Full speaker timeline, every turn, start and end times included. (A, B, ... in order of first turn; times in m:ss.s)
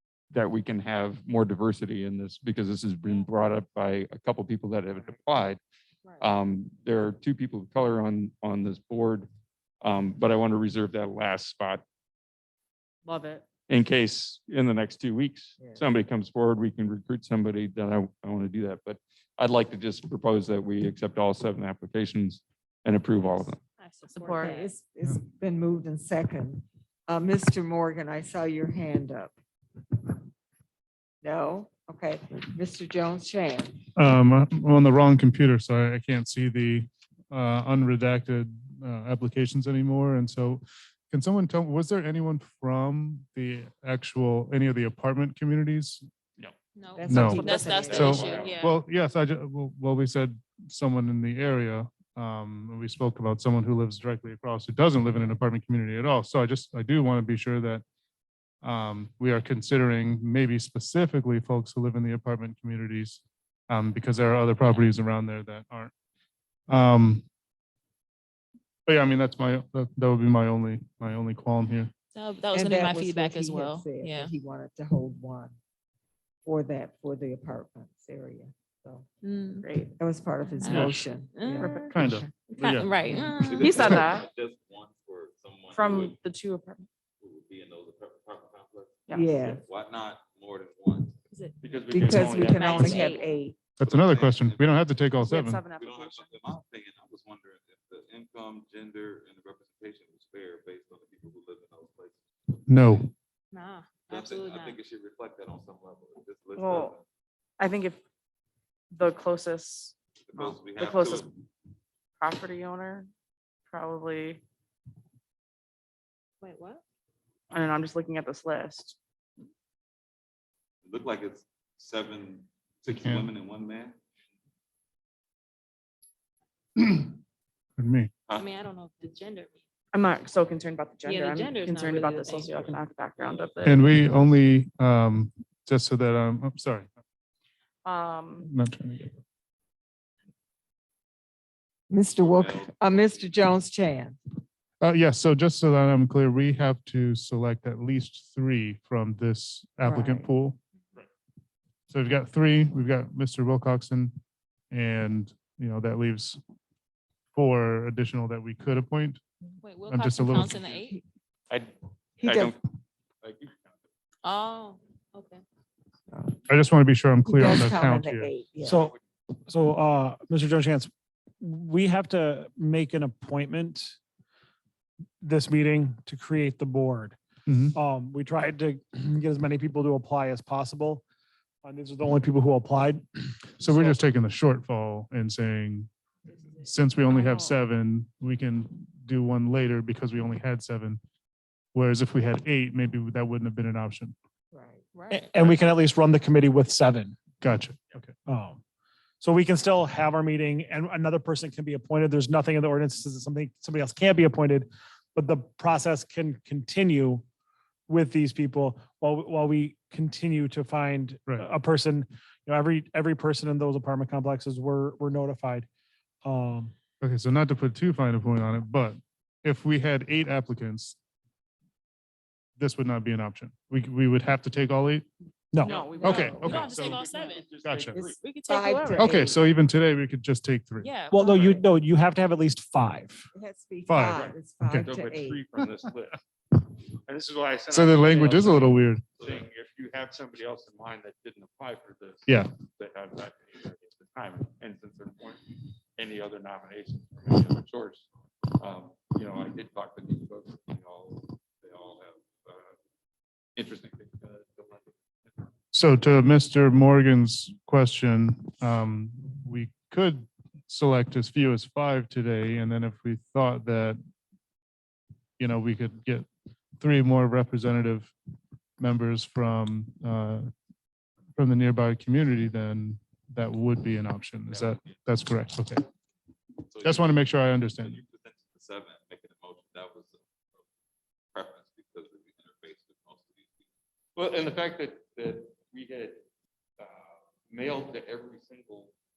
0:00.3-0:05.6 A
0:06.2-0:09.3 A
0:09.8-0:11.8 A
0:13.0-0:13.4 B
0:13.7-0:23.6 A
0:15.6-0:15.8 C
0:23.8-0:24.7 D
0:24.2-0:24.5 B
0:24.4-0:29.3 C
0:31.2-0:33.8 C
0:34.0-0:46.0 E
0:46.8-0:48.8 D
0:47.0-0:48.5 C
0:47.1-0:57.8 E
0:47.4-0:48.7 A
0:58.6-1:05.9 E
1:06.7-1:07.2 E
1:08.9-1:11.9 E
1:12.1-1:14.3 D
1:12.5-1:15.6 C
1:16.4-1:19.1 C
1:19.2-1:19.7 D
1:19.6-1:19.9 B
1:20.0-1:22.3 C
1:20.5-1:21.9 D
1:20.6-1:21.0 E
1:21.6-1:21.9 B
1:21.9-1:22.9 E
1:22.5-1:24.0 D
1:23.1-1:24.0 C
1:23.4-1:26.2 F
1:23.6-1:24.2 B
1:23.7-1:24.0 E
1:25.8-1:26.8 B
1:27.2-1:31.1 F
1:29.1-1:29.7 C
1:31.3-1:31.6 D
1:31.6-1:33.1 A
1:31.9-1:33.5 C
1:32.2-1:33.3 D
1:32.6-1:33.2 B
1:33.8-1:35.6 E
1:33.8-1:34.9 F
1:35.2-1:36.3 B
1:35.7-1:42.2 F
1:42.7-1:43.1 E
1:43.5-1:44.8 D
1:44.1-1:47.0 F
1:46.6-1:46.9 B
1:47.6-1:48.0 B
1:48.9-1:51.3 B
1:50.2-1:51.3 F
1:52.2-1:53.1 B
1:53.7-1:54.4 B
1:56.4-1:56.8 D
1:57.5-1:59.0 B
2:00.8-2:04.0 F
2:03.0-2:03.3 E
2:06.8-2:07.1 E
2:07.8-2:08.1 E
2:08.3-2:09.6 D
2:09.9-2:13.8 B
2:11.0-2:12.8 D
2:13.6-2:16.9 E
2:17.8-2:18.5 B
2:18.4-2:19.2 E
2:21.9-2:24.2 C
2:22.2-2:23.3 F
2:24.8-2:30.6 E
2:29.8-2:30.3 C
2:31.9-2:34.1 E
2:34.7-2:36.4 E
2:37.3-2:39.2 E
2:39.6-2:41.0 D
2:39.9-2:40.6 E
2:41.5-2:42.6 A
2:42.2-2:42.6 C
2:43.2-2:43.8 A
2:44.2-2:45.4 D
2:46.1-2:46.4 C
2:46.5-2:48.3 E
2:47.2-2:48.9 C
2:48.6-2:49.0 G
2:49.5-2:50.9 G
2:51.4-2:54.0 G
2:55.2-2:57.2 G
2:57.5-2:57.8 E
2:57.8-3:01.0 G
3:01.6-3:04.0 G
3:03.6-3:05.9 E
3:06.6-3:11.0 E
3:11.7-3:14.2 E
3:14.5-3:14.8 C
3:14.9-3:15.3 D
3:15.1-3:17.2 G
3:17.4-3:18.1 E
3:18.3-3:18.6 G
3:19.2-3:27.2 G
3:27.9-3:35.7 G
3:36.2-3:36.7 G
3:37.0-3:41.0 E
3:42.6-3:45.1 E
3:45.5-3:45.8 G
3:45.6-3:46.7 B
3:45.6-3:48.2 A
3:46.0-3:47.0 E
3:46.0-3:47.4 D
3:47.6-3:48.0 E
3:48.0-3:49.4 C
3:48.2-3:49.2 B
3:48.5-3:48.8 D
3:48.9-3:50.9 E
3:50.8-3:51.5 D
3:51.1-3:53.3 G
3:51.2-3:51.6 C
3:53.3-3:55.4 C
3:53.9-3:54.9 E
3:54.0-3:56.2 A
3:57.0-4:05.4 A
3:57.7-3:59.0 E
4:06.0-4:12.8 A
4:13.6-4:15.5 A
4:15.7-4:24.0 E
4:25.4-4:26.3 E
4:26.8-4:28.1 E
4:28.8-4:30.5 E
4:31.4-4:35.8 E
4:34.5-4:34.9 A
4:36.8-4:37.1 F
4:36.8-4:38.0 E
4:37.8-4:40.6 F
4:41.3-4:43.6 F
4:44.2-4:46.2 A
4:46.8-4:49.0 A